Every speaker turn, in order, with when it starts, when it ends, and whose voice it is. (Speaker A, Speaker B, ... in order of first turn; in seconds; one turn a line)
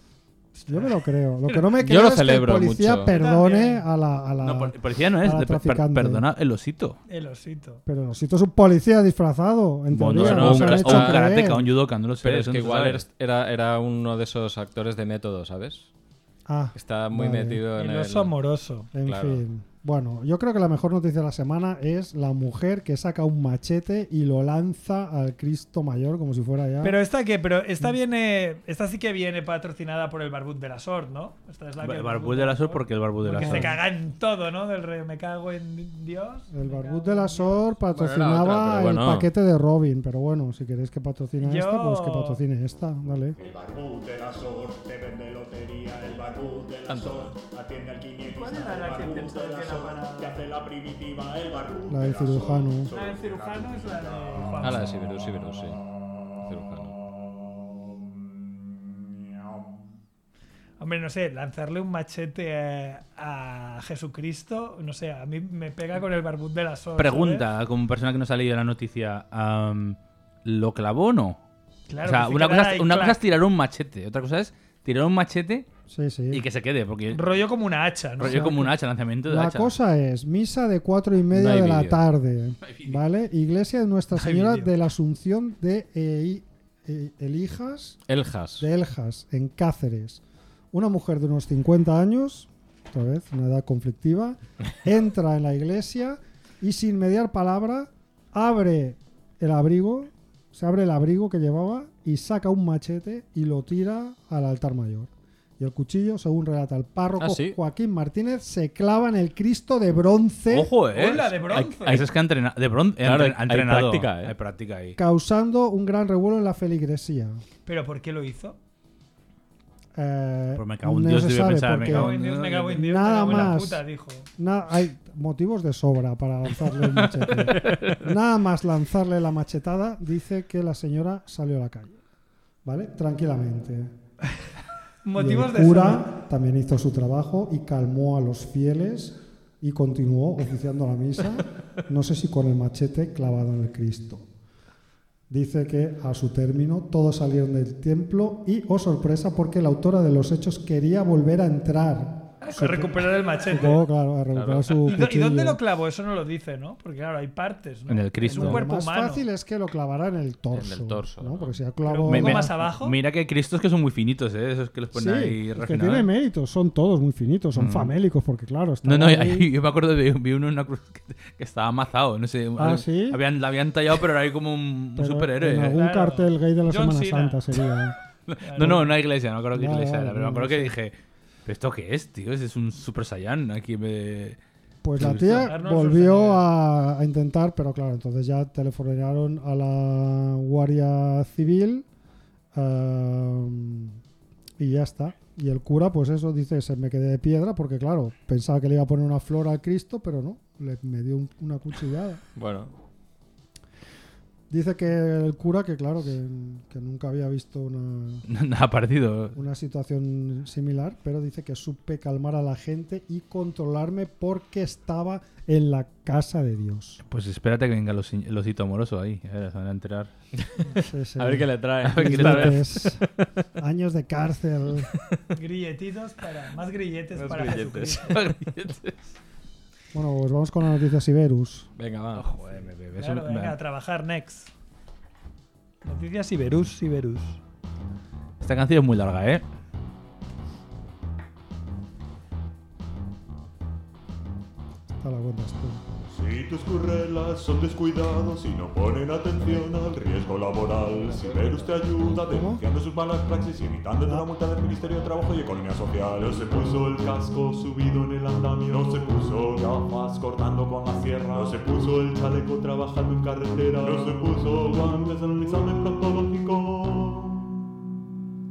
Speaker A: 0.6-0.9
Speaker B: 0.7-6.2
Speaker C: 1.8-3.1
Speaker A: 3.1-3.9
Speaker D: 4.4-7.0
Speaker A: 7.1-7.8
Speaker B: 7.9-11.7
Speaker D: 9.9-13.0
Speaker C: 10.2-11.2
Speaker C: 12.2-15.9
Speaker B: 16.5-17.6
Speaker C: 16.8-18.3
Speaker A: 17.8-18.9
Speaker B: 18.9-27.0
Speaker C: 19.0-19.4
Speaker A: 26.8-37.7
Speaker D: 31.8-33.8
Speaker B: 33.3-33.8
Speaker B: 36.5-43.4
Speaker C: 37.9-39.3
Speaker A: 41.4-42.4
Speaker E: 43.4-54.6
Speaker C: 46.9-47.4
Speaker A: 48.3-50.5
Speaker B: 51.9-52.9
Speaker A: 52.9-54.9
Speaker C: 54.6-55.8
Speaker C: 56.5-57.0
Speaker A: 60.8-67.5
Speaker D: 67.0-71.4
Speaker A: 71.9-73.2
Speaker D: 72.0-75.7
Speaker B: 75.9-76.4
Speaker D: 76.3-77.4
Speaker A: 77.1-78.7
Speaker D: 78.2-79.7
Speaker B: 78.3-78.7
Speaker B: 79.2-88.0
Speaker C: 81.3-82.0
Speaker D: 82.6-83.0
Speaker A: 84.2-84.7
Speaker C: 88.1-88.7
Speaker B: 88.6-90.2
Speaker B: 90.7-110.7
Speaker C: 107.2-107.6
Speaker D: 110.5-111.2
Speaker A: 110.9-111.9
Speaker C: 111.0-112.1
Speaker D: 111.9-115.0
Speaker C: 113.0-114.3
Speaker B: 115.0-117.4
Speaker A: 117.7-118.6
Speaker B: 120.0-122.2
Speaker D: 120.6-123.5
Speaker A: 121.9-124.3
Speaker B: 122.7-123.8
Speaker B: 124.4-132.0
Speaker D: 127.0-128.0
Speaker B: 132.7-133.9
Speaker A: 135.0-136.1
Speaker B: 135.2-144.2
Speaker B: 145.3-155.6
Speaker A: 152.4-153.8
Speaker C: 154.3-154.8
Speaker A: 154.8-159.3
Speaker D: 157.9-158.6
Speaker B: 158.3-162.5
Speaker C: 160.5-161.6
Speaker A: 161.8-163.0
Speaker D: 162.1-166.1
Speaker B: 164.9-169.5
Speaker D: 167.6-167.9
Speaker D: 168.8-175.8
Speaker B: 172.6-173.2
Speaker B: 175.0-178.0
Speaker A: 175.7-177.4
Speaker D: 178.3-180.9
Speaker A: 178.4-178.9
Speaker B: 178.6-178.8
Speaker B: 179.6-180.8
Speaker D: 181.5-184.4
Speaker B: 184.8-191.9
Speaker D: 185.0-185.5
Speaker A: 185.3-186.5
Speaker B: 192.5-194.0
Speaker B: 194.6-202.2
Speaker C: 202.3-202.7
Speaker B: 204.5-208.2
Speaker D: 208.3-209.3
Speaker B: 209.3-217.0
Speaker D: 217.1-220.1
Speaker C: 220.4-223.0
Speaker B: 220.8-223.1
Speaker D: 221.8-222.7
Speaker B: 223.6-224.9
Speaker A: 225.3-228.2
Speaker C: 227.2-228.3
Speaker D: 228.1-228.9
Speaker B: 229.9-231.7
Speaker C: 231.8-232.3
Speaker D: 232.2-233.6
Speaker A: 233.0-234.5
Speaker A: 235.8-237.4
Speaker D: 238.4-239.4
Speaker B: 245.0-246.1
Speaker E: 246.1-267.3
Speaker B: 249.4-252.6
Speaker B: 254.0-255.3